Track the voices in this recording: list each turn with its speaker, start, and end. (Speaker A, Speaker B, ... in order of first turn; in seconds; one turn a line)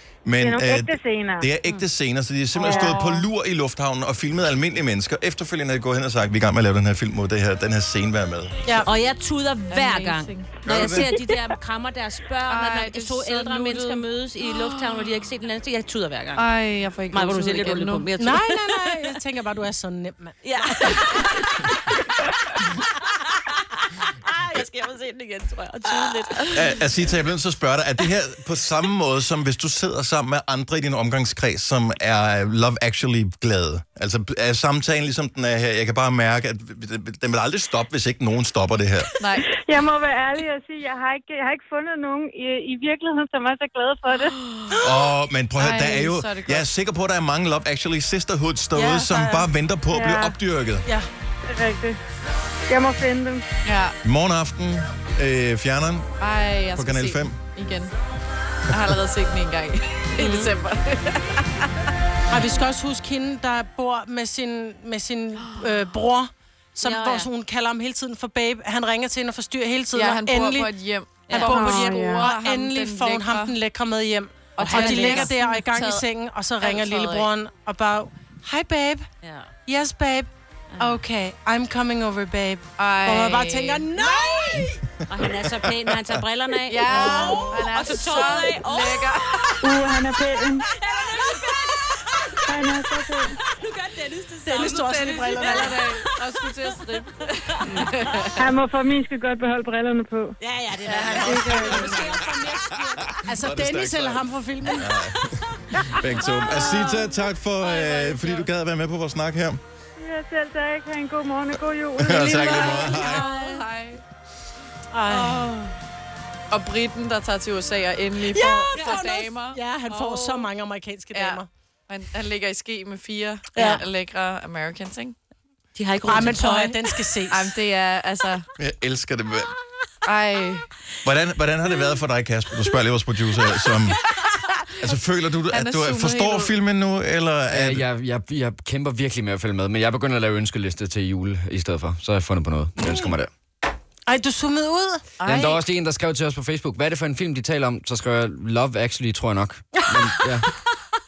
Speaker A: 0.2-8.6
Speaker B: 0.4-1.5
Speaker C: 2.5-3.2
Speaker B: 2.6-3.0
Speaker D: 8.7-8.9
Speaker E: 8.8-16.4
Speaker C: 9.7-10.6
Speaker A: 10.6-11.2
Speaker C: 12.4-15.1
Speaker C: 16.4-18.1
Speaker E: 17.1-19.2
Speaker D: 18.1-20.9
Speaker E: 20.4-22.0
Speaker E: 22.5-26.8
Speaker A: 26.5-39.1
Speaker C: 39.2-39.4
Speaker B: 39.5-44.4
Speaker C: 44.5-44.8
Speaker A: 44.8-50.9
Speaker C: 45.6-46.7
Speaker D: 48.7-49.5
Speaker B: 49.9-50.3
Speaker B: 51.4-52.0
Speaker B: 52.7-53.5
Speaker C: 53.6-54.0
Speaker A: 54.0-56.1
Speaker C: 56.2-57.9
Speaker A: 56.7-57.4
Speaker C: 58.7-61.7
Speaker E: 60.2-60.5
Speaker D: 62.3-70.7
Speaker E: 66.8-67.3
Speaker C: 69.9-73.5
Speaker D: 71.3-79.0
Speaker B: 71.4-72.3
Speaker C: 74.5-76.0
Speaker E: 74.6-75.3
Speaker C: 76.6-77.3
Speaker E: 79.2-79.5
Speaker D: 79.7-84.8
Speaker E: 80.7-81.0
Speaker C: 82.8-83.9
Speaker E: 84.0-98.3
Speaker A: 85.2-85.7
Speaker C: 86.7-89.6
Speaker D: 86.9-87.6
Speaker B: 89.6-90.6
Speaker B: 92.5-93.3
Speaker D: 94.4-95.8
Speaker C: 94.5-98.3
Speaker B: 98.4-100.3
Speaker E: 100.4-103.3
Speaker C: 100.8-102.0
Speaker B: 101.0-101.9
Speaker A: 101.5-104.2
Speaker D: 103.2-105.0
Speaker A: 104.8-109.6
Speaker E: 106.0-107.0
Speaker E: 107.6-108.2
Speaker B: 110.0-113.2
Speaker A: 112.0-113.2
Speaker C: 112.3-114.0
Speaker D: 113.0-113.6
Speaker D: 114.9-115.7
Speaker C: 115.1-115.6
Speaker C: 116.5-120.5
Speaker D: 118.2-121.5
Speaker C: 121.1-125.2
Speaker E: 123.5-123.8
Speaker E: 125.8-126.8
Speaker D: 126.0-127.5
Speaker C: 126.2-126.5
Speaker C: 127.3-128.5
Speaker A: 128.6-129.5
Speaker C: 130.0-130.7
Speaker A: 131.0-134.0
Speaker A: 134.8-137.9
Speaker C: 135.5-136.5
Speaker F: 137.5-143.3
Speaker D: 144.1-145.0
Speaker C: 145.2-145.7
Speaker F: 145.2-150.4
Speaker E: 149.8-150.3